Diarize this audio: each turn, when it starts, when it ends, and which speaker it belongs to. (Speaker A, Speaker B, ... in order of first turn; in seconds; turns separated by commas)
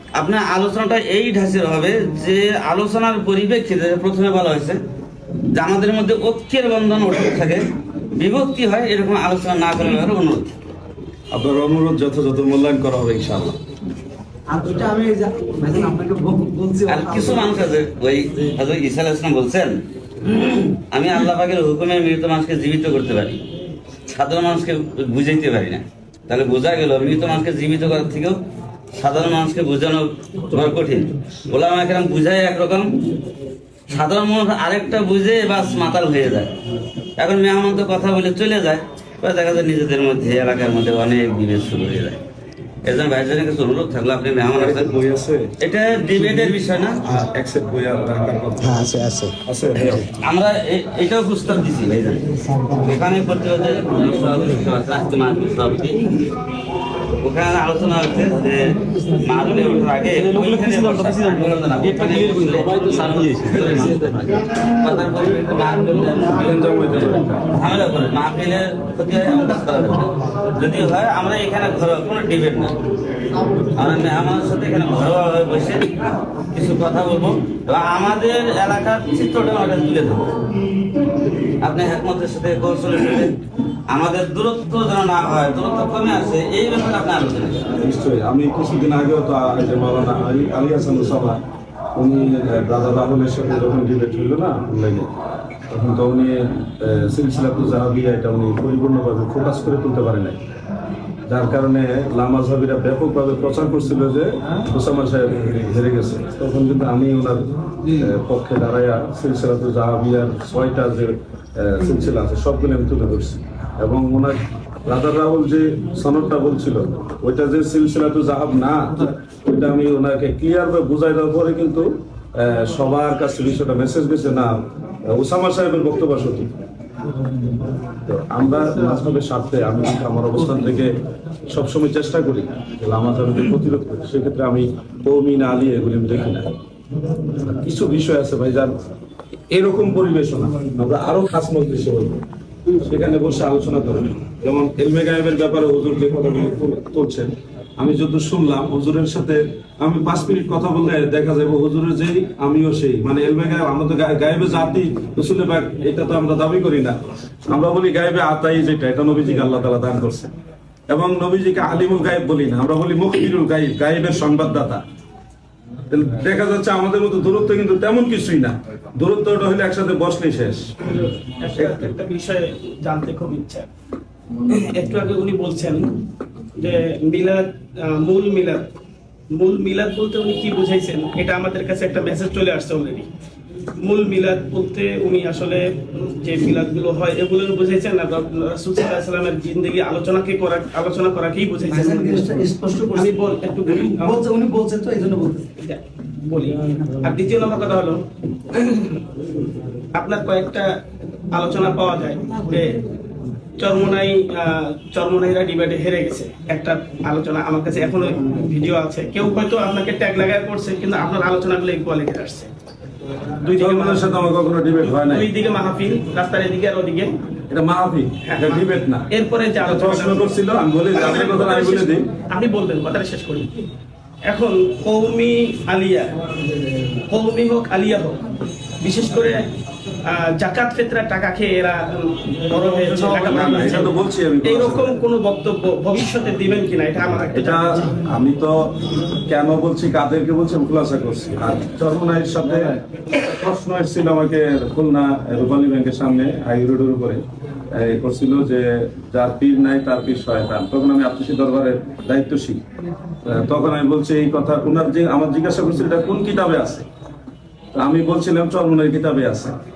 Speaker A: 0.1-4.8, Speaker A: 5.5-10.5, Speaker B: 11.3-13.6, Speaker C: 14.5-17.7, Speaker A: 16.9-19.8, Speaker A: 20.3-23.4, Speaker A: 24.1-28.4, Speaker A: 28.9-32.9, Speaker A: 33.9-36.5, Speaker A: 37.2-42.2, Speaker A: 42.8-44.9, Speaker B: 44.4-45.5, Speaker A: 45.6-47.0, Speaker B: 47.0-50.1, Speaker A: 50.1-52.2, Speaker A: 52.8-56.0, Speaker A: 57.2-64.0, Speaker C: 60.2-61.2, Speaker C: 62.0-63.0, Speaker C: 63.6-64.1, Speaker B: 64.0-64.3, Speaker A: 64.7-66.5, Speaker B: 66.3-67.4, Speaker A: 67.5-72.7, Speaker A: 73.8-75.9, Speaker A: 76.5-80.3, Speaker A: 81.6-83.3, Speaker A: 83.9-87.7, Speaker B: 87.8-91.4, Speaker B: 92.0-95.1, Speaker B: 95.7-100.4, Speaker B: 101.3-126.5, Speaker B: 128.1-130.9, Speaker B: 131.5-136.5, Speaker B: 137.4-138.7, Speaker B: 139.5-142.2, Speaker B: 142.8-157.0, Speaker B: 157.5-160.3, Speaker B: 160.9-164.8, Speaker B: 165.9-170.7, Speaker D: 170.8-173.7, Speaker B: 171.6-171.9, Speaker D: 174.5-175.9, Speaker D: 176.6-178.7, Speaker D: 179.3-183.1, Speaker D: 183.8-194.2, Speaker C: 191.7-195.5, Speaker D: 195.6-198.0, Speaker D: 199.9-200.7, Speaker D: 201.3-202.8, Speaker D: 203.6-212.5, Speaker D: 213.4-214.1, Speaker B: 213.6-215.3, Speaker D: 215.0-217.1, Speaker B: 217.5-219.1, Speaker D: 218.2-220.3, Speaker B: 219.6-222.1, Speaker D: 220.9-223.5, Speaker D: 224.3-226.1, Speaker D: 227.1-228.2, Speaker D: 228.8-229.5, Speaker D: 230.1-237.9, Speaker B: 233.1-235.0, Speaker B: 237.2-238.7, Speaker B: 239.2-252.6, Speaker B: 253.2-256.8, Speaker B: 257.8-259.5